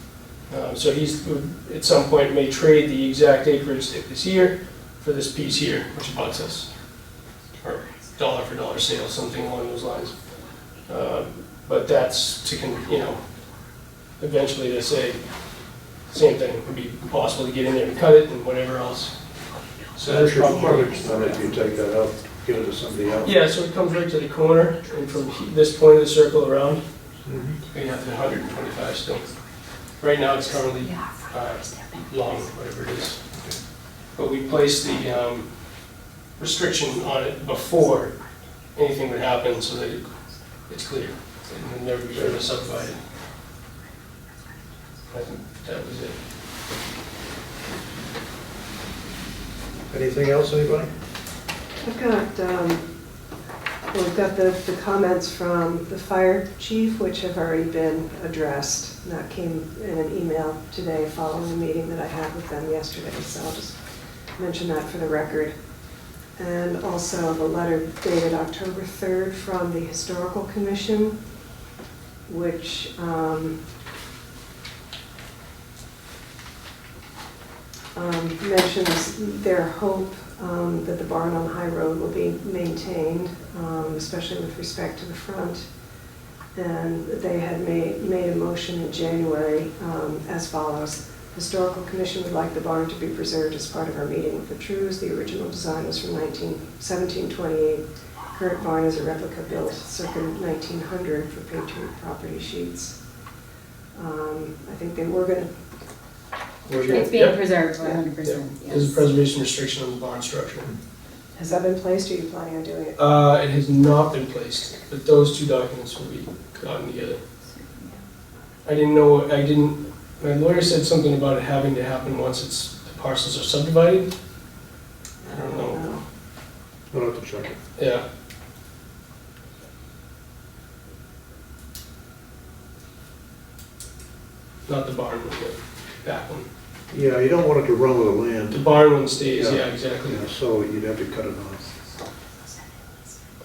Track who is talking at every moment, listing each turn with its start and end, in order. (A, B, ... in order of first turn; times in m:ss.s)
0:00.5-0:06.7 A
0:07.6-0:10.1 A
0:10.9-0:13.2 A
0:14.2-0:15.2 A
0:16.1-0:19.2 A
0:20.0-0:23.4 B
0:20.0-0:21.4 A
0:23.2-0:26.8 A
0:27.2-0:27.6 B
0:27.7-0:29.3 A
0:30.0-0:33.2 A
0:34.1-0:35.5 A
0:36.4-0:38.2 A
0:38.7-0:40.0 A
0:40.7-0:43.0 A
0:42.1-0:42.4 B
0:45.1-0:46.2 A
0:49.9-0:50.9 B
0:51.8-0:52.8 C
0:53.9-1:03.8 C
1:04.4-1:05.5 C
1:06.4-1:11.2 C
1:12.3-1:13.6 C
1:17.9-1:25.7 C
1:26.5-1:43.0 C
1:43.9-1:45.5 C
1:46.7-1:47.5 A
1:46.9-1:48.9 D
1:48.2-1:50.7 A
1:51.3-1:53.0 C
1:53.0-1:57.2 A
1:57.6-1:58.0 D
1:58.6-2:04.1 A
2:05.2-2:06.0 C
2:05.3-2:05.8 A
2:06.9-2:07.6 B
2:07.8-2:08.0 A
2:14.7-2:16.5 A
2:16.9-2:18.7 B
2:18.5-2:20.2 A
2:19.3-2:21.7 B